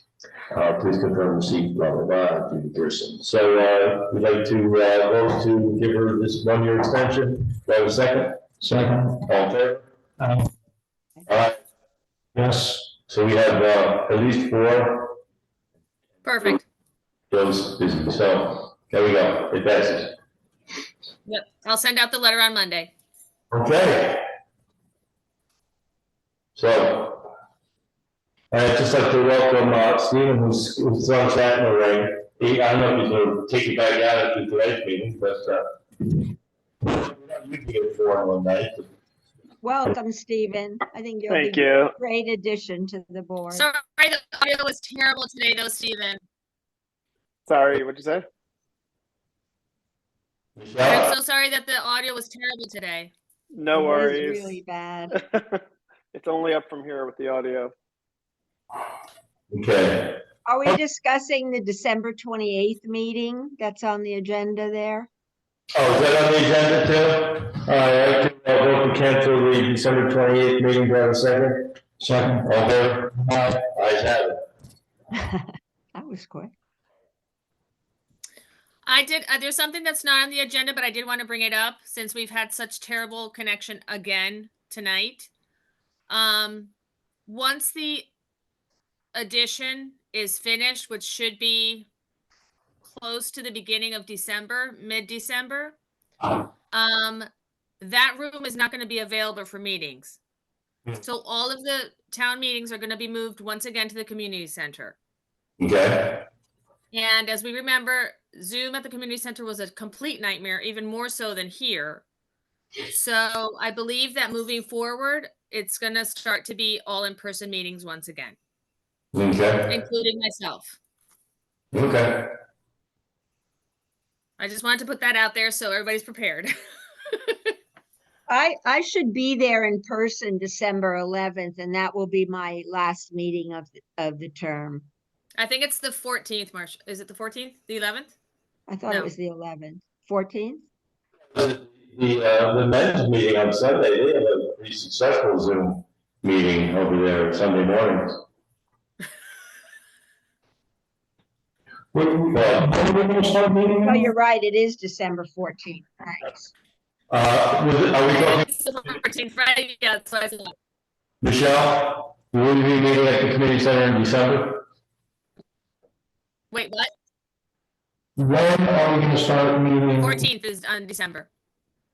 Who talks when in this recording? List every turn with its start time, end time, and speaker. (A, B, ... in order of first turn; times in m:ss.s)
0:00.5-0:08.5 A
0:08.6-0:09.2 B
0:09.2-0:09.9 A
0:10.2-0:10.5 B
0:11.3-0:11.6 A
0:12.4-0:12.9 B
0:13.1-0:15.2 A
0:16.2-0:16.6 C
0:17.3-0:20.2 A
0:21.3-0:22.9 C
0:23.5-0:24.2 A
0:26.6-0:27.3 A
0:28.5-0:35.7 A
0:36.8-0:38.9 A
0:39.6-0:43.7 D
0:41.3-0:42.0 E
0:43.5-0:46.2 C
0:47.5-0:48.3 E
0:50.6-0:51.1 A
0:50.8-0:53.1 C
0:53.5-0:54.6 E
0:53.7-0:55.2 D
0:55.1-0:55.6 E
0:56.1-0:57.7 E
0:59.5-1:00.2 A
1:00.5-1:05.1 D
1:05.8-1:11.8 A
1:12.0-1:12.5 B
1:12.4-1:14.4 A
1:15.2-1:16.5 D
1:18.8-1:25.3 C
1:26.1-1:26.7 C
1:27.3-1:28.1 C
1:29.1-1:31.9 C
1:32.9-1:35.8 C
1:36.7-1:37.3 C
1:37.8-1:40.2 C
1:41.0-1:45.0 C
1:45.6-1:46.2 A
1:46.9-1:52.0 C
1:52.9-1:58.4 C
1:59.1-1:59.7 A
1:59.7-2:00.8 C
2:01.7-2:02.3 A
2:04.4-2:06.5 C
2:07.1-2:07.6 C
2:08.3-2:14.9 D
2:15.4-2:18.1 C
2:18.7-2:20.6 D
2:21.3-2:28.2 A
2:31.9-2:34.1 B
2:32.3-2:32.7 A
2:33.8-2:36.5 D
2:37.1-2:38.5 A
2:38.1-2:40.6 C
2:41.2-2:44.6 A
2:46.5-2:46.9 C
2:48.2-2:50.2 B
2:50.0-2:51.3 C